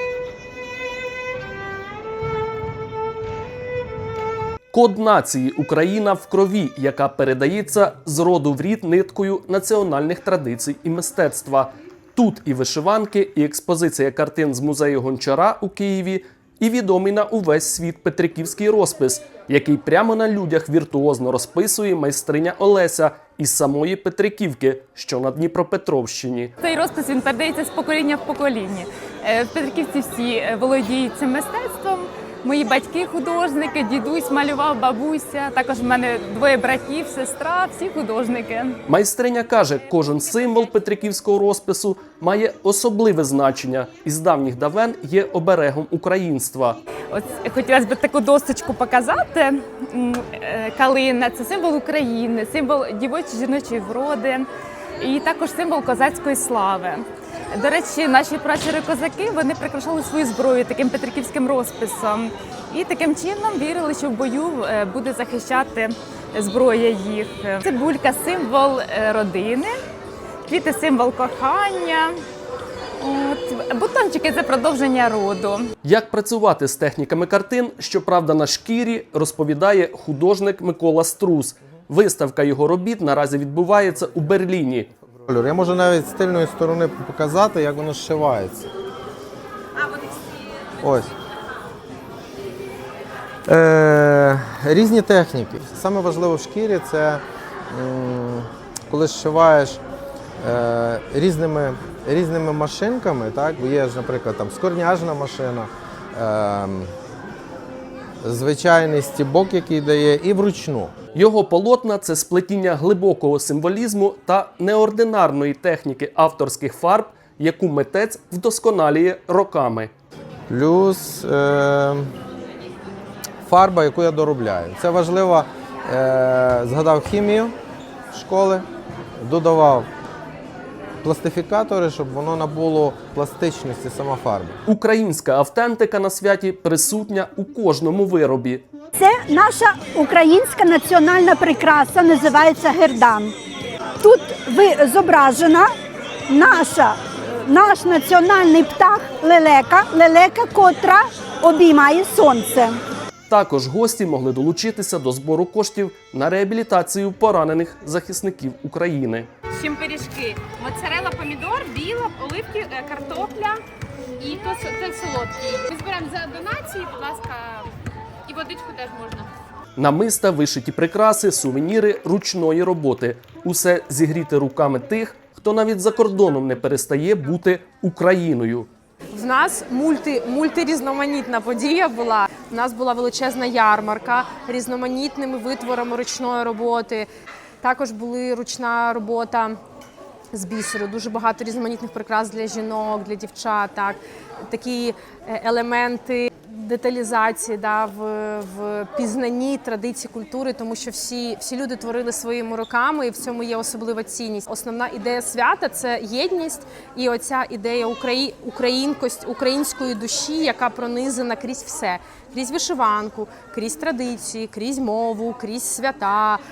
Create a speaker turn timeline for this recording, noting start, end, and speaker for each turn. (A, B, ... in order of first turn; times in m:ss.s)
0:04.7-0:26.5 A
0:26.6-0:38.8 B
0:38.9-0:46.8 A
0:47.1-0:54.5 B
0:55.0-1:09.8 B
1:10.4-1:12.1 B
1:13.0-1:15.7 B
1:15.8-1:24.9 A
1:25.3-1:28.7 C
1:30.8-1:31.1 C
1:33.4-1:39.8 C
1:40.4-1:46.9 C
1:48.2-1:50.9 C
1:51.1-1:59.9 A
2:00.5-2:02.1 C
2:03.4-2:07.5 C
2:08.1-2:08.6 C
2:09.2-2:09.9 C
2:11.0-2:14.6 C
2:14.6-2:18.6 A
2:19.0-2:23.3 D
2:24.0-2:25.7 D
2:26.3-2:32.8 D
2:33.3-2:39.3 A
2:39.5-2:43.6 E
2:44.2-2:47.7 E
2:48.3-2:49.3 E
2:49.8-2:58.7 A
2:59.1-3:07.1 F
3:07.6-3:09.6 F
3:10.3-3:14.0 F
3:14.5-3:36.4 F